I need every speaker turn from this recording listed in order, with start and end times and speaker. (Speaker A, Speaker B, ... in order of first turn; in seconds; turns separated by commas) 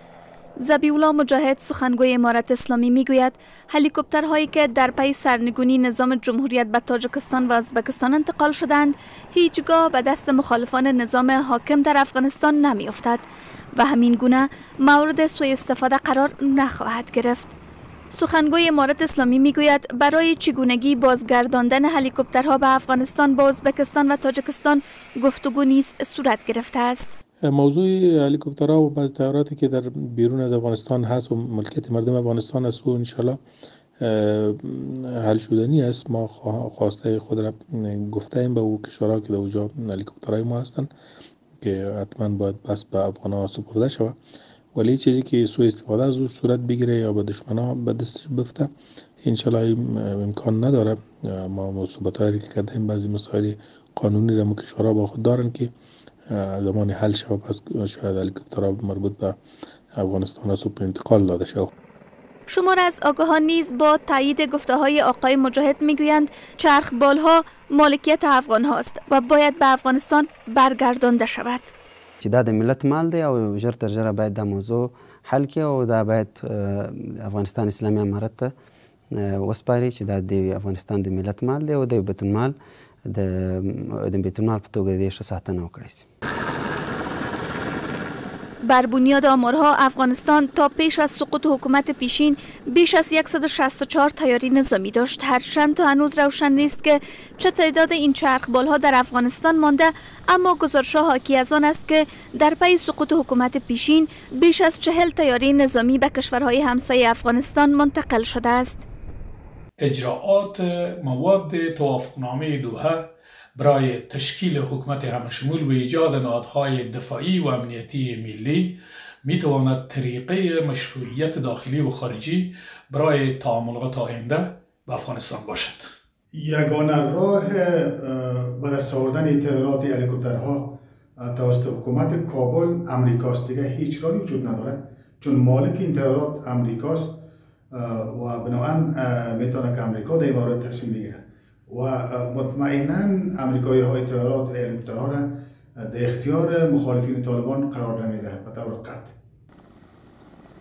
Speaker A: 0.6-17.5, Speaker A: 18.1-27.1, Speaker B: 27.5-33.4, Speaker B: 34.0-40.9, Speaker B: 41.6-44.1, Speaker B: 44.8-48.7, Speaker B: 49.2-55.7, Speaker B: 56.3-59.4, Speaker B: 60.0-61.7, Speaker A: 62.5-71.7, Speaker C: 72.2-78.5, Speaker C: 79.2-82.5, Speaker C: 83.1-86.1, Speaker A: 88.7-108.8, Speaker D: 109.8-125.8, Speaker E: 126.3-137.2, Speaker E: 137.7-145.3, Speaker E: 145.9-149.1